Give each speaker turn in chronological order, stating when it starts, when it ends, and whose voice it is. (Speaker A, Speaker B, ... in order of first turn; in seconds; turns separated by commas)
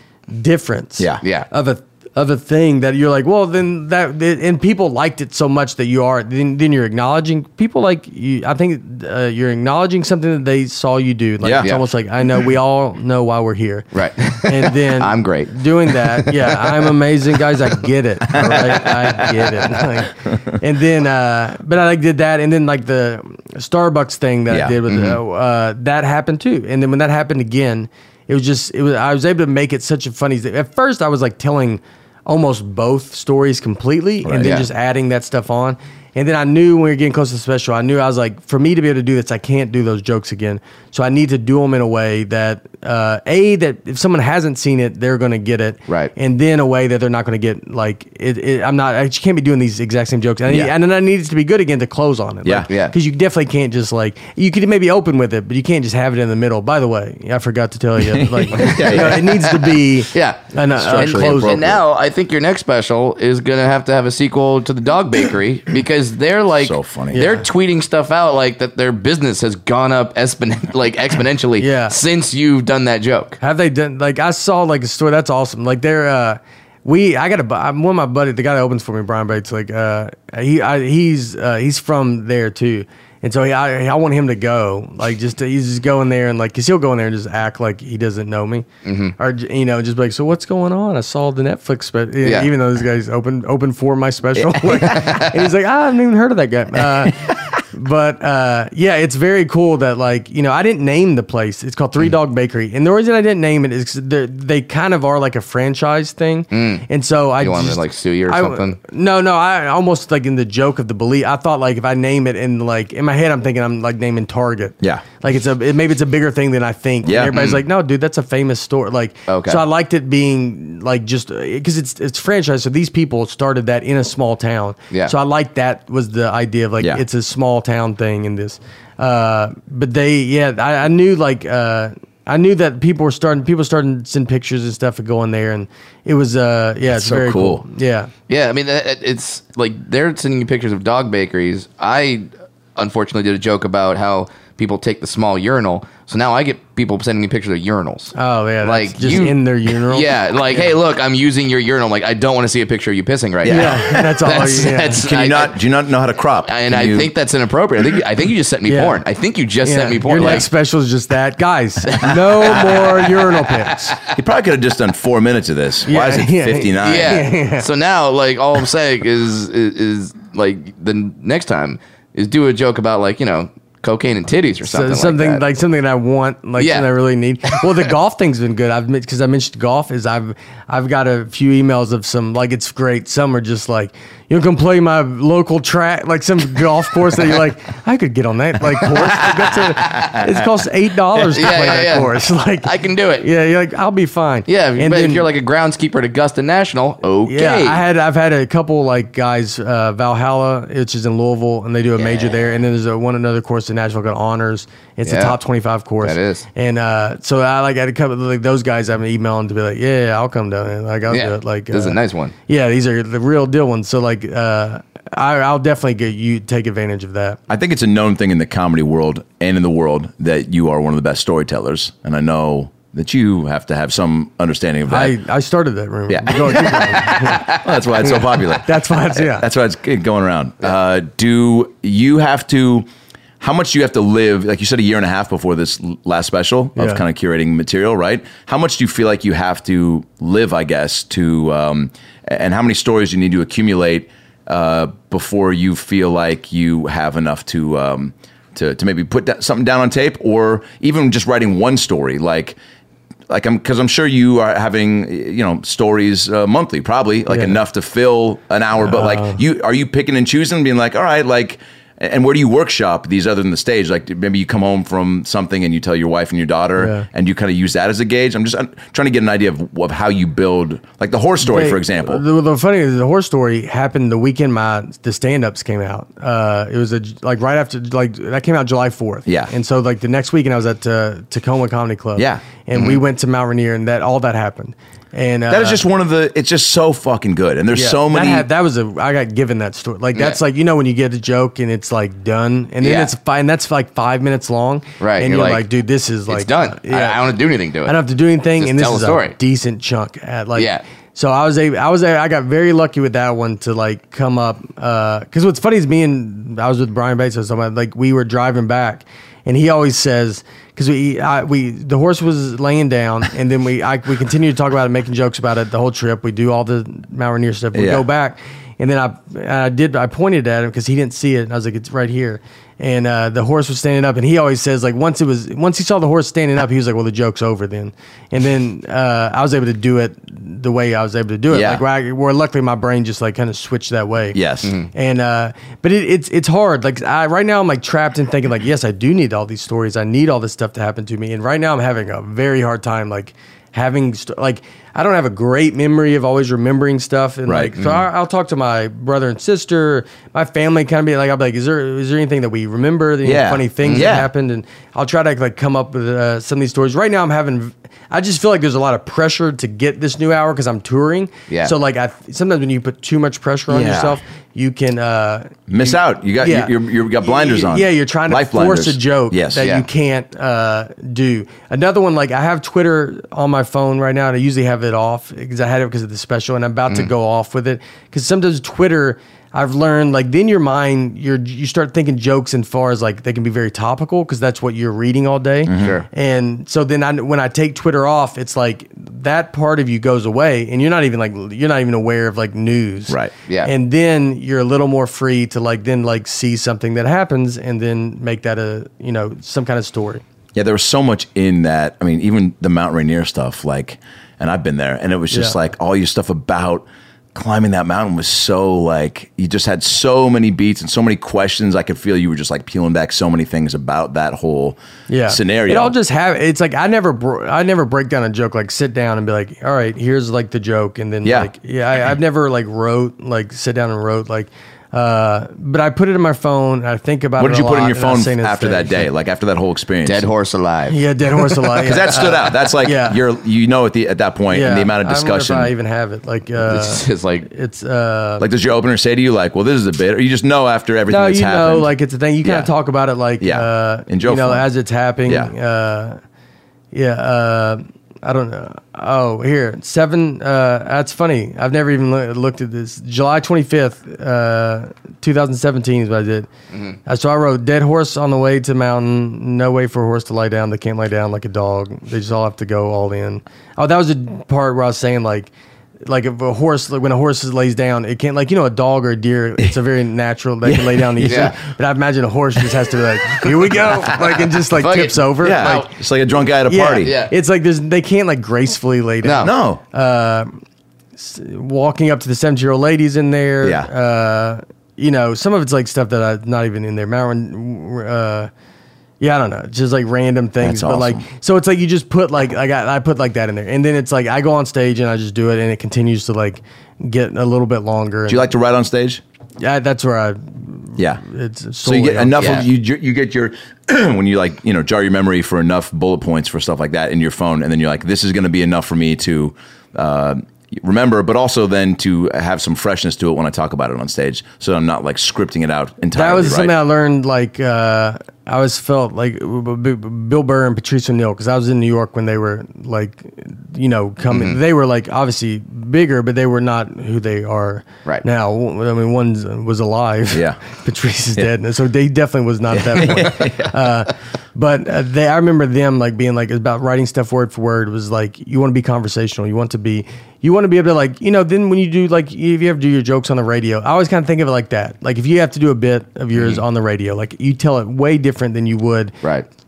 Speaker A: 0.3-13.9, Speaker B: 11.4-11.7, Speaker C: 13.9-16.9, Speaker A: 14.4-61.6, Speaker B: 24.5-24.8, Speaker C: 24.9-25.2, Speaker B: 34.2-34.5, Speaker C: 34.4-34.7, Speaker C: 45.9-46.1, Speaker B: 50.5-50.7, Speaker C: 52.7-52.9, Speaker B: 58.0-59.6, Speaker C: 60.1-73.4, Speaker B: 60.8-61.8, Speaker B: 66.6-67.2, Speaker A: 67.1-67.5, Speaker A: 71.6-72.0, Speaker A: 73.4-138.1, Speaker C: 88.8-89.2, Speaker C: 92.2-92.5, Speaker B: 94.4-95.4, Speaker B: 97.0-97.3, Speaker C: 106.5-106.9, Speaker C: 107.4-108.8, Speaker B: 117.0-117.5, Speaker C: 119.3-119.6, Speaker B: 136.9-137.6, Speaker C: 138.3-155.6, Speaker A: 148.2-150.6, Speaker B: 153.4-153.9, Speaker A: 153.5-155.0, Speaker B: 155.1-157.1, Speaker C: 156.5-160.5, Speaker A: 158.7-159.0, Speaker A: 159.6-164.0, Speaker B: 160.2-160.5, Speaker C: 161.9-164.1, Speaker B: 162.4-162.8, Speaker B: 164.1-167.3, Speaker A: 165.9-167.7, Speaker C: 166.8-175.4, Speaker A: 174.7-192.7, Speaker C: 176.6-176.9, Speaker C: 177.5-177.8, Speaker C: 191.3-193.3, Speaker A: 193.2-195.3, Speaker C: 194.5-197.8, Speaker A: 197.3-217.4, Speaker C: 202.0-202.4, Speaker C: 205.1-205.4, Speaker C: 206.0-206.4, Speaker C: 211.1-212.3, Speaker B: 217.5-225.2, Speaker A: 224.9-229.5, Speaker B: 226.1-232.9, Speaker B: 233.4-252.6, Speaker A: 236.8-237.0, Speaker B: 253.3-272.2, Speaker A: 257.3-257.6, Speaker A: 258.8-259.4, Speaker A: 266.8-267.1, Speaker A: 271.4-285.8, Speaker B: 279.3-279.5, Speaker B: 282.2-282.4, Speaker B: 285.5-288.5, Speaker A: 287.7-297.2, Speaker C: 292.8-293.1, Speaker C: 295.0-295.7, Speaker C: 296.3-298.0, Speaker A: 297.9-334.4, Speaker C: 298.6-299.4, Speaker C: 300.6-300.8, Speaker B: 317.7-318.1, Speaker B: 331.5-331.8, Speaker B: 334.3-334.7, Speaker C: 334.6-334.9, Speaker A: 334.9-400.2, Speaker B: 347.5-347.8, Speaker B: 353.2-354.3, Speaker C: 353.8-354.1, Speaker B: 363.7-364.2, Speaker B: 365.7-369.7, Speaker C: 369.6-369.9, Speaker B: 385.7-386.0, Speaker C: 385.8-386.1, Speaker B: 400.6-415.9, Speaker A: 405.3-405.6, Speaker A: 415.1-429.1, Speaker B: 421.2-421.5, Speaker B: 427.4-430.3, Speaker C: 430.1-431.4, Speaker A: 430.9-433.2, Speaker B: 431.8-435.7, Speaker A: 434.5-438.5, Speaker C: 436.6-437.5, Speaker B: 438.4-441.9, Speaker A: 441.1-446.2, Speaker B: 442.4-442.7, Speaker B: 443.4-444.7, Speaker B: 445.3-445.5, Speaker A: 446.9-456.5, Speaker A: 457.1-465.5, Speaker A: 466.0-475.9, Speaker C: 471.2-471.6, Speaker C: 474.7-475.9, Speaker B: 475.4-477.2, Speaker A: 476.7-480.6, Speaker C: 477.0-477.3, Speaker C: 479.2-479.5, Speaker B: 479.4-479.8, Speaker A: 481.2-488.5, Speaker B: 483.6-483.9, Speaker A: 489.2-498.5, Speaker B: 490.6-491.2, Speaker B: 498.3-499.2, Speaker A: 499.6-502.6, Speaker B: 501.8-516.8, Speaker C: 502.4-502.6, Speaker A: 516.1-549.1, Speaker C: 524.3-524.6, Speaker B: 530.3-530.6, Speaker B: 532.7-533.7, Speaker C: 546.3-546.6